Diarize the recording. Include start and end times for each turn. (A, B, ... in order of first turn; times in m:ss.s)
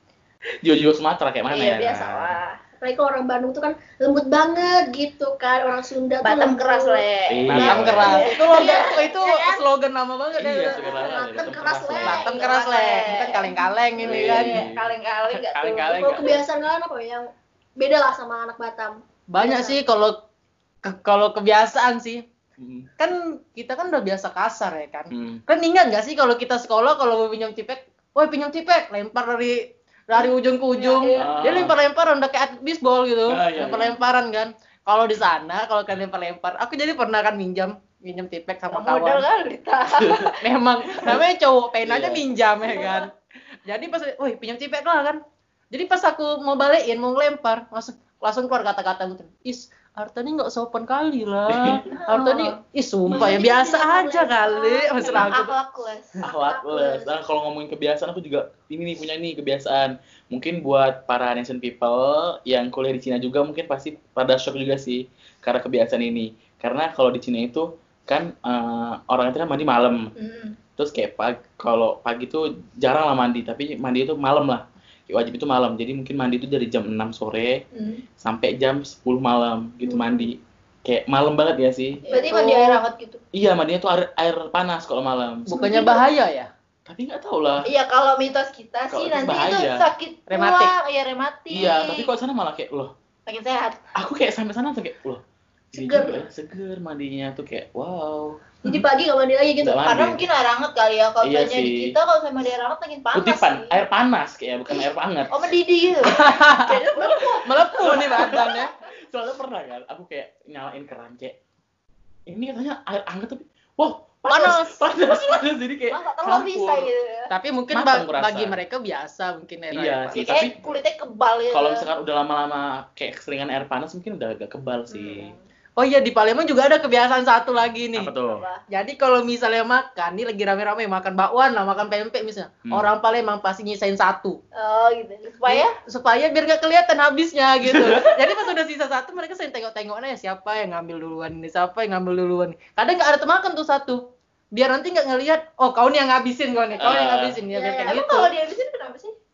0:00.6-0:02.4 A
0:01.5-0:02.6 B
0:02.8-0:07.0 C
0:06.2-0:09.0 B
0:07.3-0:08.1 A
0:07.5-0:11.3 D
0:07.8-0:09.6 C
0:10.3-0:12.3 A
0:10.9-0:12.5 C
0:12.0-0:14.6 D
0:12.3-0:16.0 B
0:14.0-0:14.8 A
0:15.3-0:16.4 D
0:15.9-0:19.8 C
0:19.3-0:20.2 D
0:20.8-0:22.2 D
0:22.6-0:22.9 A
0:23.0-0:39.3 D
0:25.1-0:25.4 A
0:30.1-0:31.3 B
0:31.1-0:31.8 A
0:33.3-0:34.0 A
0:38.7-0:40.3 B
0:39.9-0:40.3 A
0:40.4-0:43.1 D
0:41.8-0:42.7 A
0:42.7-0:43.0 B
0:43.6-0:45.2 D
0:45.7-0:55.5 D
0:51.5-0:51.8 A
0:52.1-0:52.5 C
0:53.1-0:55.4 C
0:53.1-0:53.4 B
0:55.0-0:57.1 B
0:56.2-1:10.1 A
0:56.4-0:57.0 C
1:10.2-1:10.6 B
1:10.8-1:17.6 A
1:17.7-1:18.0 B
1:18.2-1:22.8 A
1:19.8-1:20.3 C
1:22.1-1:23.2 B
1:22.1-1:22.4 C
1:23.3-1:25.5 A
1:25.5-1:26.5 D
1:25.5-1:26.1 C
1:26.8-1:27.7 A
1:27.6-1:32.1 B
1:28.9-1:29.8 A
1:30.3-1:30.7 D
1:31.5-1:32.9 A
1:33.2-1:33.8 B
1:33.9-1:35.2 A
1:35.7-1:38.5 A
1:35.7-1:36.2 C
1:38.6-1:39.8 C
1:39.6-1:40.2 A
1:39.8-1:43.8 B
1:41.2-1:41.9 A
1:43.1-1:45.4 A
1:44.7-1:48.1 B
1:46.1-1:48.7 D
1:47.2-1:51.3 A
1:52.3-1:56.8 A
1:54.3-1:54.8 D
1:55.9-1:57.3 B
1:57.3-2:00.3 D
1:57.7-1:58.6 A
1:59.7-2:00.6 A
2:00.1-2:01.9 B
2:01.5-2:05.3 A
2:04.9-2:05.3 B
2:05.8-2:08.1 D
2:07.9-2:08.5 A
2:08.3-2:08.6 B
2:08.7-2:14.4 D
2:12.6-2:12.9 A
2:14.6-2:15.7 B
2:15.5-2:28.3 D
2:17.6-2:18.4 A
2:26.8-2:27.4 A
2:26.8-2:29.1 B